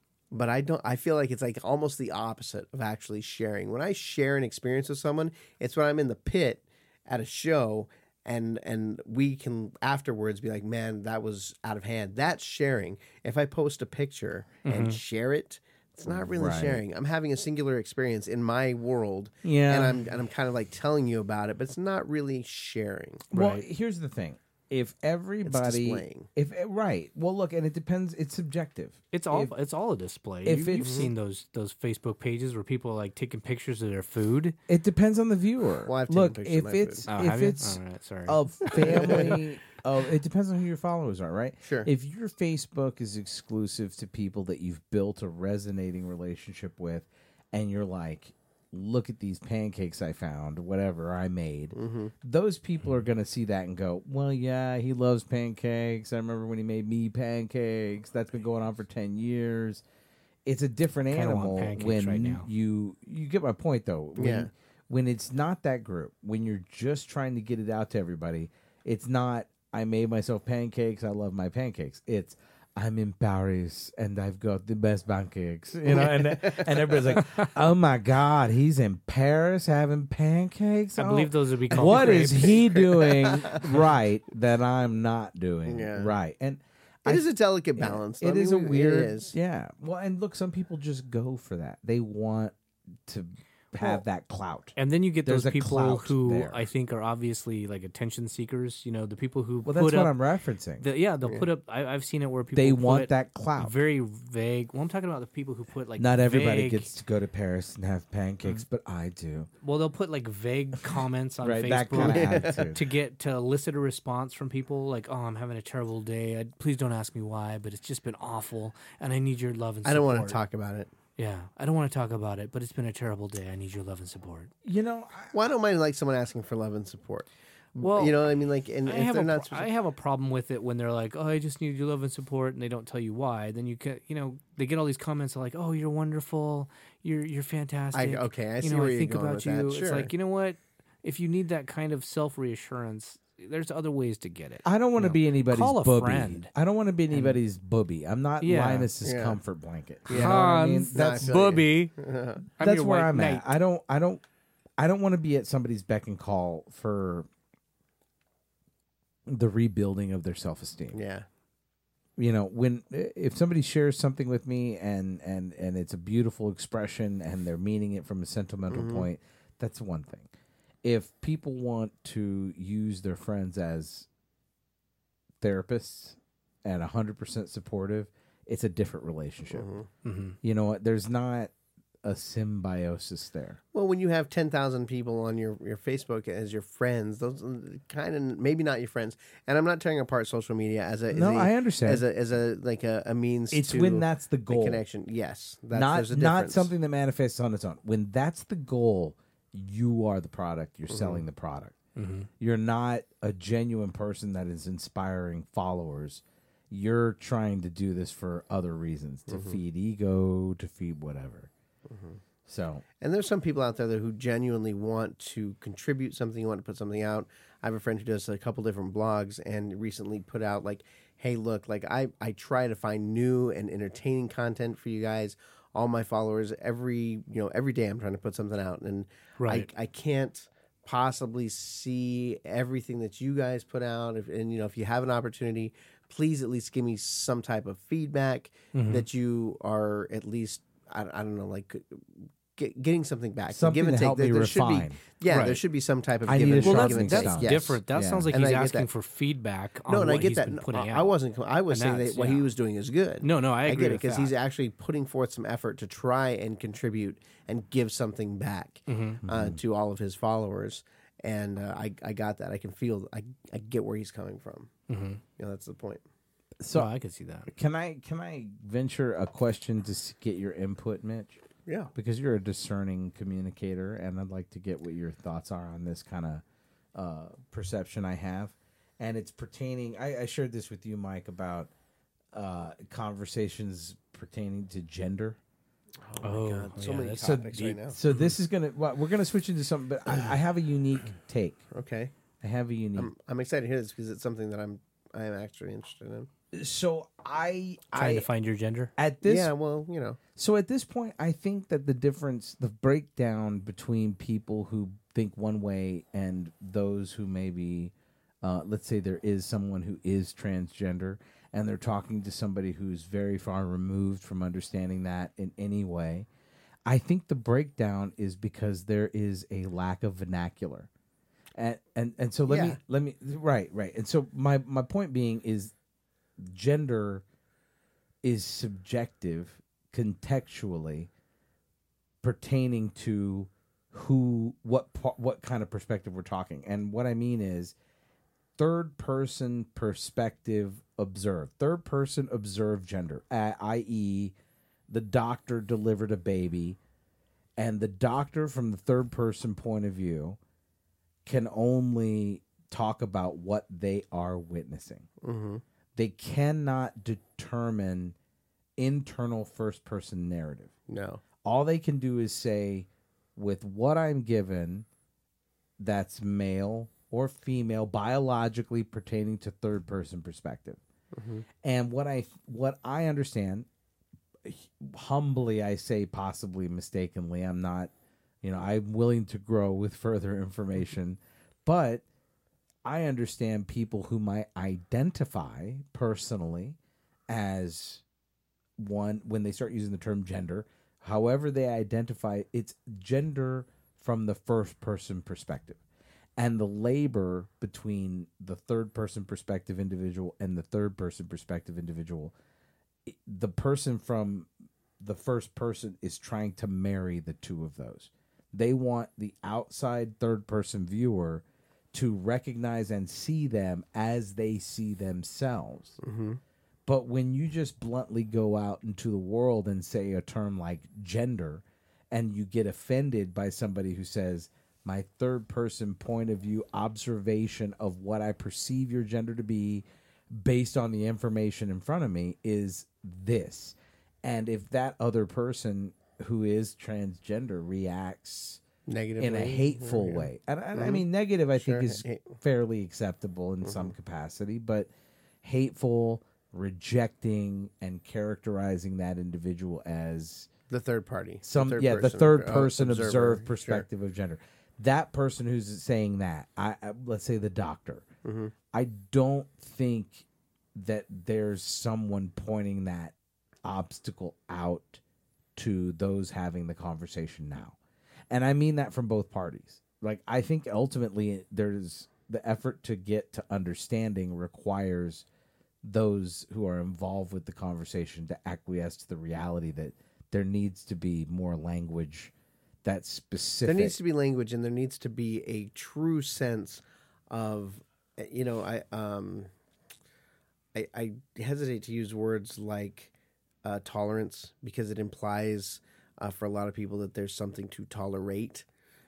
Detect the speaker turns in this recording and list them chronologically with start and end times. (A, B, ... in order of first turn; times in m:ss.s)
0:00.3-0:23.3 A
0:14.6-0:15.0 B
0:16.3-0:16.8 C
0:19.4-0:20.0 C
0:23.3-0:23.6 B
0:23.3-0:29.5 C
0:25.4-0:26.3 A
0:29.1-0:34.6 B
0:30.4-0:31.1 C
0:30.8-0:31.1 A
0:34.7-0:59.8 C
0:35.8-0:37.1 A
0:37.1-0:39.3 B
0:38.7-0:39.4 A
0:41.6-0:41.9 A
0:51.7-0:52.1 A
1:00.4-1:27.2 C
1:01.1-1:02.5 B
1:04.2-1:04.5 A
1:15.9-1:17.2 A
1:21.0-1:22.6 B
1:21.7-1:23.7 A
1:25.7-1:26.1 A
1:27.1-1:29.3 A
1:27.8-1:36.6 C
1:34.8-1:40.1 B
1:39.6-1:40.9 C
1:40.8-1:46.9 B
1:42.6-1:43.7 C
1:46.0-1:49.5 C
1:49.6-2:00.4 B
1:51.4-1:52.8 C
1:52.0-1:52.6 A
1:59.8-2:00.9 A
2:01.2-2:04.5 B
2:04.6-2:05.4 C
2:05.3-2:09.7 A
2:07.8-2:08.2 B
2:08.9-2:26.5 B
2:17.9-2:20.1 A
2:24.6-2:31.3 C
2:27.1-2:27.4 B
2:28.4-2:28.9 B
2:29.0-2:29.4 A
2:30.1-2:32.4 A
2:30.1-2:31.9 B
2:32.6-2:33.5 B
2:32.6-2:34.2 C
2:34.8-2:37.3 C
2:39.3-2:41.0 C
2:40.9-2:41.2 A
2:42.2-2:50.3 C
2:48.7-2:49.1 A
2:50.8-2:54.1 C
2:55.4-2:59.7 C
2:59.5-2:59.9 A
3:00.0-3:00.4 B
3:00.4-3:01.5 C
3:02.0-3:03.6 C
3:03.7-3:16.7 A
3:11.1-3:12.0 C
3:13.5-3:14.8 C
3:15.7-3:21.8 C
3:20.9-3:21.2 A
3:22.0-3:22.3 B
3:22.4-3:31.5 C
3:29.3-3:29.6 A
3:31.9-3:32.2 A
3:32.5-3:32.8 C
3:33.0-4:08.9 A
3:49.4-3:49.7 B
3:58.7-3:59.0 B
4:03.5-4:05.0 C
4:05.3-4:05.6 B
4:06.3-4:08.3 C
4:06.6-4:11.2 B
4:09.9-4:24.7 A
4:11.7-4:12.5 B
4:13.2-4:14.3 B
4:18.9-4:19.2 B
4:19.2-4:19.6 C
4:24.9-4:25.2 B
4:25.4-4:26.0 A
4:26.6-4:26.9 C
4:26.7-4:27.5 B
4:27.5-4:31.4 C
4:31.7-4:31.9 A
4:32.0-4:36.4 C
4:37.0-4:41.7 C
4:42.3-4:45.4 C
4:46.1-4:48.0 A
4:46.2-4:48.3 B
4:47.2-4:51.6 C
4:51.7-4:52.1 A
4:52.4-4:53.1 C
4:53.0-4:56.3 A
4:56.5-4:58.3 C
4:57.9-4:58.9 B
4:59.0-4:59.5 C
4:59.2-5:00.2 A
5:00.4-5:16.3 C
5:16.9-5:20.9 C
5:21.6-5:25.7 C
5:22.4-5:22.8 A
5:26.4-5:27.2 C
5:28.2-5:31.1 C
5:32.2-5:37.8 C
5:38.6-5:44.4 C
5:44.9-5:46.8 C
5:47.6-5:50.4 C
5:51.3-5:55.1 C
5:55.2-5:55.6 A
5:56.0-5:58.2 C
5:58.8-6:00.7 C
6:00.9-6:01.2 A
6:01.4-6:04.9 C
6:05.8-6:10.8 C
6:11.1-6:11.5 A
6:11.6-6:13.7 C
6:14.4-6:17.9 C
6:18.4-6:22.0 C
6:22.8-6:26.8 C
6:27.3-6:28.0 C
6:28.8-6:35.8 C
6:36.4-6:42.3 C
6:43.1-6:44.5 C
6:45.0-6:56.0 C
6:56.0-6:56.4 A
6:56.9-7:18.6 C
7:18.9-7:21.0 A
7:19.2-7:24.9 C
7:21.6-7:22.4 A
7:23.6-7:24.0 A
7:25.4-7:30.5 C
7:30.7-7:33.8 A
7:31.4-7:38.1 C
7:38.2-7:38.5 A
7:38.7-7:45.0 C
7:45.6-7:47.8 C
7:48.3-7:55.3 C
7:55.8-8:02.3 C
8:02.8-8:04.0 C
8:03.6-8:09.5 A
8:10.8-8:13.1 A
8:13.6-8:18.7 A